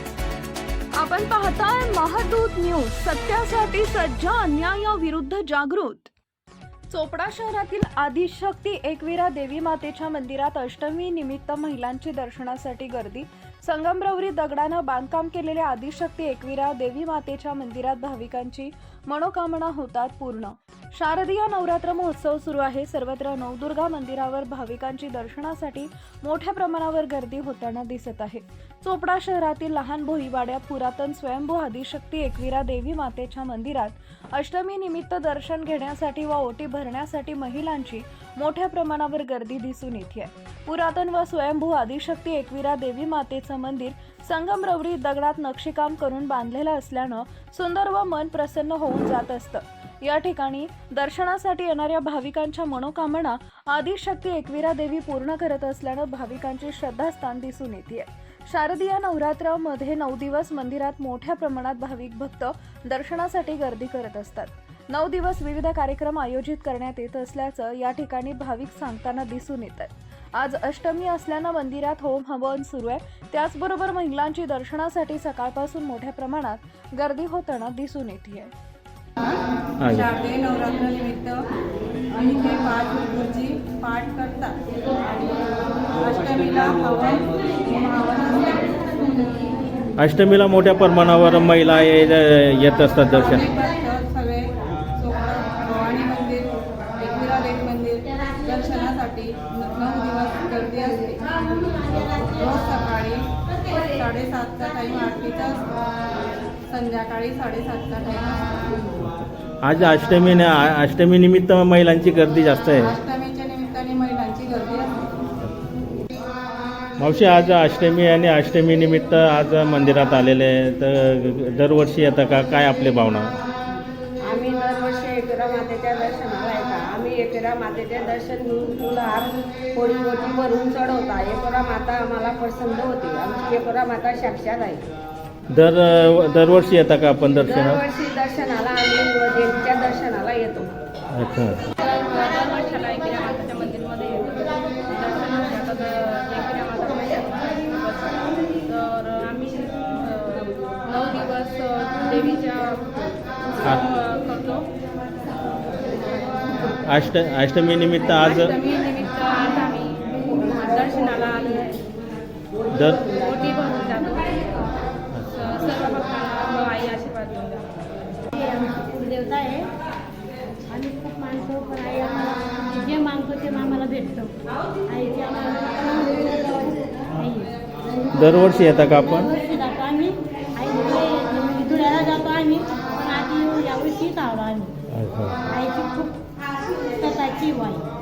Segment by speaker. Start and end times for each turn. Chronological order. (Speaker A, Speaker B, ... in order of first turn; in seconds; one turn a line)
Speaker A: 1.0-6.1
Speaker A: 6.9-78.5
Speaker B: 79.8-80.1
Speaker C: 79.9-81.4
Speaker C: 82.1-84.5
Speaker C: 86.0-89.5
Speaker B: 90.0-93.5
Speaker C: 93.1-105.8
Speaker C: 106.7-108.7
Speaker B: 109.0-112.9
Speaker C: 112.9-114.9
Speaker B: 117.0-123.3
Speaker D: 124.2-134.8
Speaker B: 135.5-137.8
Speaker D: 137.4-140.7
Speaker B: 141.1-141.6
Speaker E: 141.8-154.7
Speaker E: 156.0-156.5
Speaker B: 156.8-158.5
Speaker E: 158.0-161.8
Speaker B: 162.7-163.1
Speaker E: 163.1-164.5
Speaker E: 165.3-167.7
Speaker F: 168.3-169.7
Speaker F: 170.7-178.1
Speaker B: 178.1-179.3
Speaker F: 179.1-184.8
Speaker B: 184.9-185.4
Speaker F: 185.4-187.9